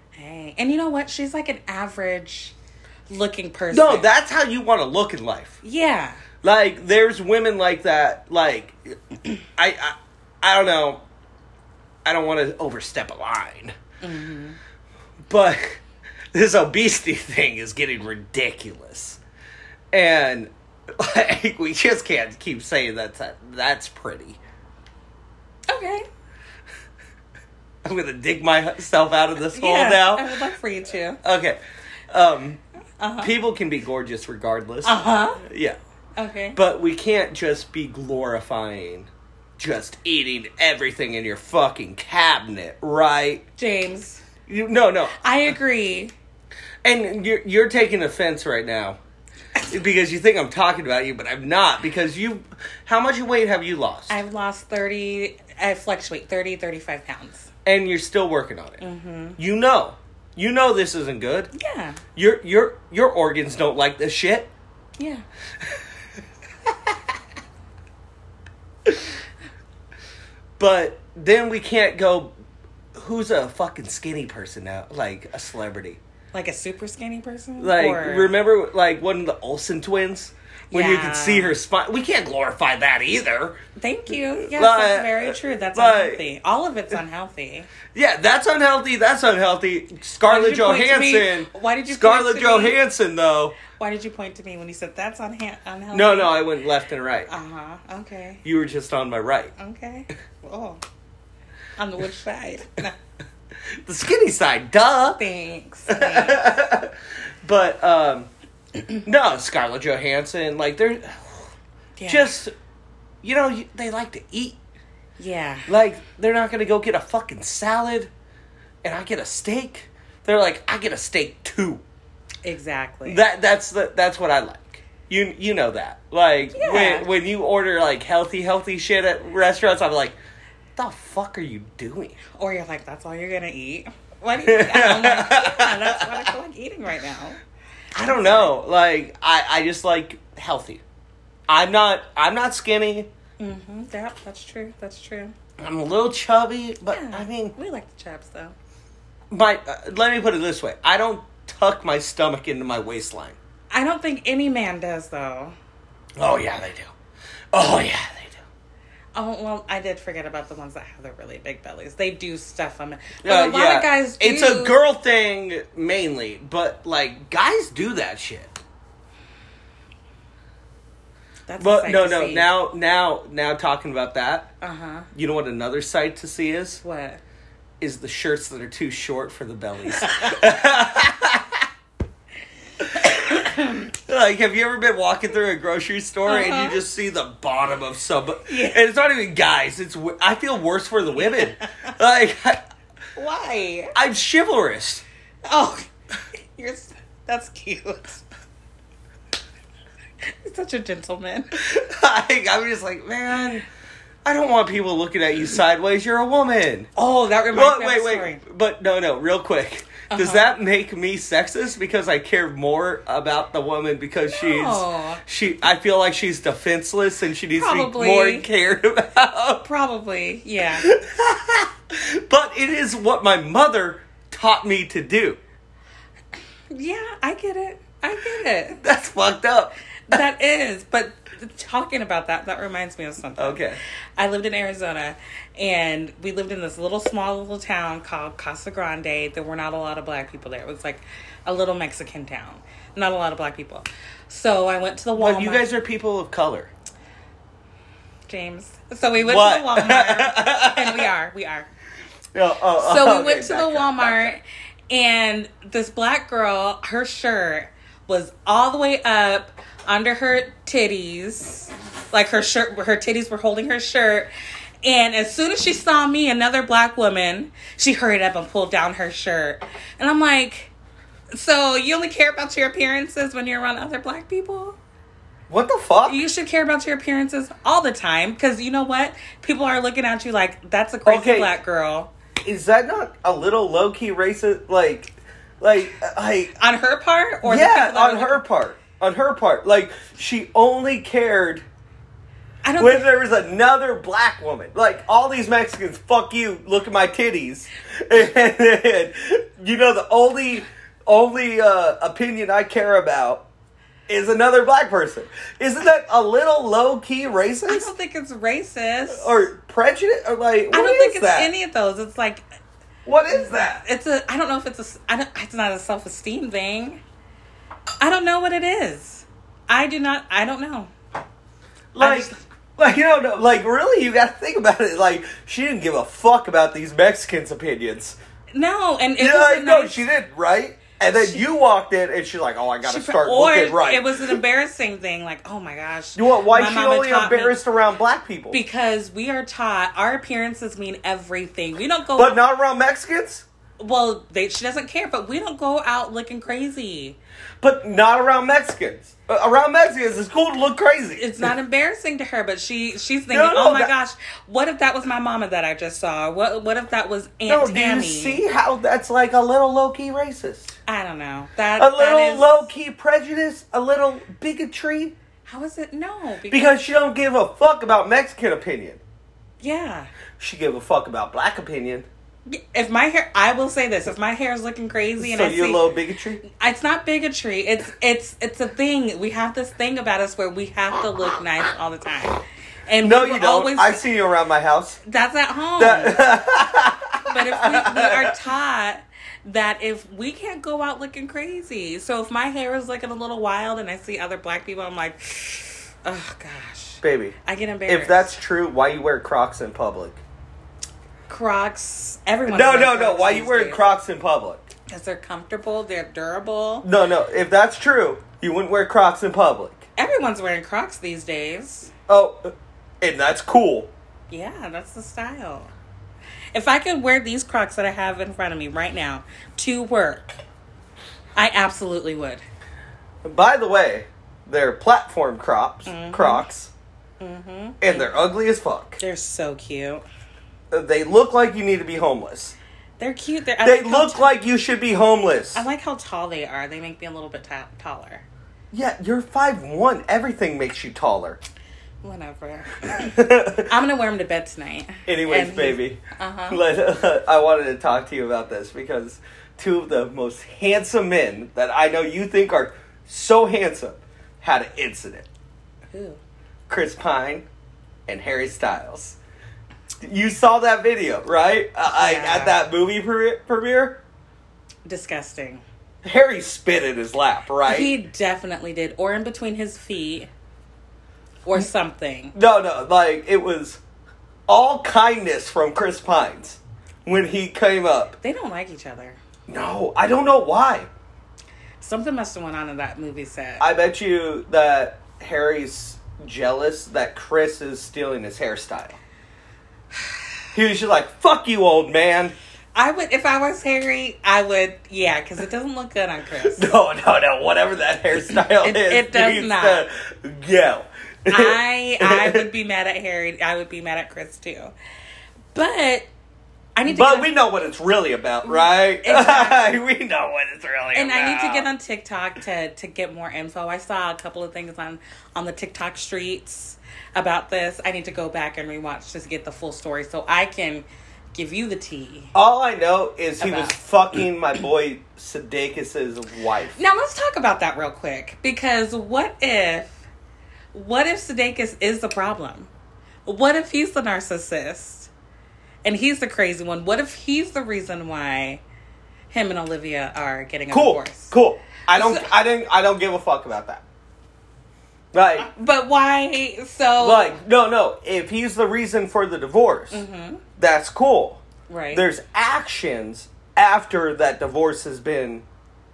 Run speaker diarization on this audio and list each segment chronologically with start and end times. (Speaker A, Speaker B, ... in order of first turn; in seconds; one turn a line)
Speaker A: 0.1-2.5
Speaker A: 3.1-4.1
Speaker B: 3.7-5.6
Speaker A: 5.6-6.2
Speaker B: 6.4-8.9
Speaker B: 9.6-11.0
Speaker B: 12.0-13.7
Speaker A: 14.0-14.6
Speaker B: 15.3-15.8
Speaker B: 16.3-19.2
Speaker B: 19.9-24.4
Speaker A: 25.7-26.1
Speaker B: 27.8-30.4
Speaker A: 29.5-31.2
Speaker B: 31.2-31.6
Speaker B: 32.1-32.6
Speaker A: 33.0-33.3
Speaker B: 33.2-35.8
Speaker A: 34.8-35.4
Speaker A: 36.1-36.6
Speaker B: 36.5-43.4
Speaker A: 43.6-44.2
Speaker B: 44.5-45.2
Speaker A: 45.2-46.1
Speaker B: 46.8-49.0
Speaker B: 49.7-54.2
Speaker A: 54.1-57.5
Speaker B: 57.6-58.8
Speaker A: 58.8-59.4
Speaker B: 59.4-61.5
Speaker A: 61.5-62.0
Speaker B: 62.1-64.5
Speaker A: 65.0-65.2
Speaker B: 70.6-72.3
Speaker B: 72.9-76.0
Speaker A: 76.3-78.3
Speaker B: 77.6-83.6
Speaker A: 80.7-81.6
Speaker A: 83.8-87.7
Speaker B: 84.4-86.2
Speaker B: 87.9-93.6
Speaker A: 90.2-92.8
Speaker A: 93.7-96.4
Speaker B: 95.9-97.3
Speaker A: 97.3-98.4
Speaker B: 98.4-99.5
Speaker A: 99.6-100.8
Speaker A: 101.8-102.9
Speaker B: 103.8-105.2
Speaker A: 105.2-106.5
Speaker B: 105.9-108.3
Speaker B: 109.0-111.5
Speaker A: 112.0-112.3
Speaker B: 112.1-112.5
Speaker B: 113.2-114.6
Speaker A: 115.2-115.7
Speaker B: 115.7-118.1
Speaker B: 118.8-121.8
Speaker A: 122.4-123.2
Speaker B: 123.0-130.2
Speaker A: 126.5-127.1
Speaker B: 130.8-132.2
Speaker A: 132.3-137.4
Speaker B: 134.5-136.3
Speaker B: 137.9-140.8
Speaker A: 137.9-138.5
Speaker B: 141.5-143.1
Speaker A: 143.4-145.3
Speaker B: 145.6-147.5
Speaker A: 146.9-148.5
Speaker B: 149.3-153.4
Speaker A: 153.7-155.5
Speaker B: 156.2-156.9
Speaker B: 157.5-158.4
Speaker A: 159.1-164.8
Speaker B: 163.2-168.6
Speaker A: 171.5-172.5
Speaker B: 171.6-174.5
Speaker A: 174.6-175.1
Speaker B: 175.1-176.8
Speaker A: 176.8-177.2
Speaker B: 177.8-181.7
Speaker A: 180.0-180.5
Speaker A: 182.9-183.9
Speaker B: 182.9-183.4
Speaker B: 184.1-192.6
Speaker A: 186.2-186.8
Speaker A: 188.5-188.8
Speaker A: 191.3-191.6
Speaker A: 193.2-193.9
Speaker B: 193.9-195.0
Speaker A: 195.4-195.9
Speaker A: 196.4-198.2
Speaker A: 200.2-201.5
Speaker B: 201.6-203.7
Speaker B: 204.2-206.9
Speaker A: 206.9-208.4
Speaker B: 207.5-219.7
Speaker A: 210.1-210.5
Speaker A: 214.3-215.2
Speaker A: 217.5-218.5
Speaker A: 219.6-220.9
Speaker B: 220.8-225.4
Speaker A: 226.7-228.8
Speaker B: 228.8-230.2
Speaker A: 230.1-233.6
Speaker B: 233.4-233.8
Speaker A: 234.2-245.7
Speaker B: 245.1-246.7
Speaker A: 248.3-251.7
Speaker B: 249.2-251.1
Speaker B: 252.3-254.3
Speaker A: 252.8-264.3
Speaker A: 264.8-270.7
Speaker A: 271.3-274.8
Speaker B: 275.5-276.2
Speaker A: 276.0-282.1
Speaker B: 281.1-281.5
Speaker B: 282.4-286.5
Speaker A: 286.6-288.4
Speaker B: 287.4-291.6
Speaker A: 292.6-293.1
Speaker B: 292.8-303.5
Speaker B: 304.1-307.9
Speaker A: 307.7-309.3
Speaker B: 309.1-311.5
Speaker A: 310.7-312.4
Speaker B: 313.1-313.8
Speaker A: 313.3-317.0
Speaker A: 318.0-320.9
Speaker B: 321.9-328.2
Speaker A: 322.0-322.4
Speaker A: 328.5-330.0
Speaker B: 329.2-334.4
Speaker A: 331.1-331.5
Speaker A: 332.8-337.6
Speaker B: 336.1-338.6
Speaker A: 338.5-342.4
Speaker B: 342.1-343.4
Speaker A: 343.8-347.2
Speaker B: 347.6-351.5
Speaker A: 351.2-358.4
Speaker B: 353.3-353.9
Speaker B: 357.5-360.7
Speaker A: 360.9-362.7
Speaker B: 361.8-365.1
Speaker A: 365.4-366.8
Speaker B: 366.5-369.0
Speaker A: 369.6-370.1
Speaker B: 370.4-372.1
Speaker A: 372.5-375.9
Speaker B: 375.2-376.4
Speaker A: 376.5-384.0
Speaker B: 383.0-385.0
Speaker A: 385.0-386.4
Speaker B: 385.8-388.3
Speaker A: 387.2-398.3
Speaker B: 397.0-397.3
Speaker B: 397.9-400.2
Speaker A: 401.3-403.8
Speaker B: 402.5-404.7
Speaker A: 404.9-406.9
Speaker B: 406.8-409.8
Speaker A: 410.0-411.9
Speaker B: 412.1-413.9
Speaker A: 414.3-415.7
Speaker A: 416.5-420.3
Speaker A: 421.4-422.4
Speaker B: 423.2-426.7
Speaker A: 425.9-426.5
Speaker A: 427.2-428.2
Speaker B: 427.8-429.0
Speaker A: 429.0-430.0
Speaker B: 430.7-432.6
Speaker A: 433.0-434.3
Speaker B: 433.6-435.6
Speaker A: 435.5-438.2
Speaker B: 438.7-441.4
Speaker A: 442.0-446.6
Speaker B: 442.9-443.7
Speaker B: 445.1-455.3
Speaker A: 455.9-456.2
Speaker B: 456.7-457.5
Speaker B: 458.1-459.2
Speaker B: 460.0-464.0
Speaker A: 461.9-462.6
Speaker A: 464.9-465.6
Speaker B: 466.0-467.9
Speaker A: 467.6-470.3
Speaker A: 471.4-472.4
Speaker B: 472.3-473.8
Speaker B: 474.5-478.1
Speaker A: 478.2-479.2
Speaker B: 479.5-480.9
Speaker A: 481.8-483.7
Speaker B: 483.6-489.0
Speaker B: 490.5-492.3
Speaker A: 492.7-496.7
Speaker B: 496.4-502.5
Speaker A: 498.6-499.9
Speaker A: 501.3-504.7
Speaker A: 505.5-506.1
Speaker A: 506.8-507.3
Speaker B: 506.9-511.7
Speaker A: 508.4-509.8
Speaker A: 510.9-522.3
Speaker B: 522.3-526.8
Speaker A: 523.4-523.8
Speaker A: 526.7-530.0
Speaker A: 530.7-532.7
Speaker A: 533.2-535.1
Speaker A: 535.8-538.6
Speaker A: 539.3-541.3
Speaker B: 540.7-543.8
Speaker A: 541.9-542.3
Speaker B: 545.1-545.5
Speaker A: 545.4-547.4
Speaker B: 547.0-550.0
Speaker A: 549.9-550.4
Speaker B: 550.6-551.4
Speaker A: 551.7-552.0
Speaker B: 551.9-555.4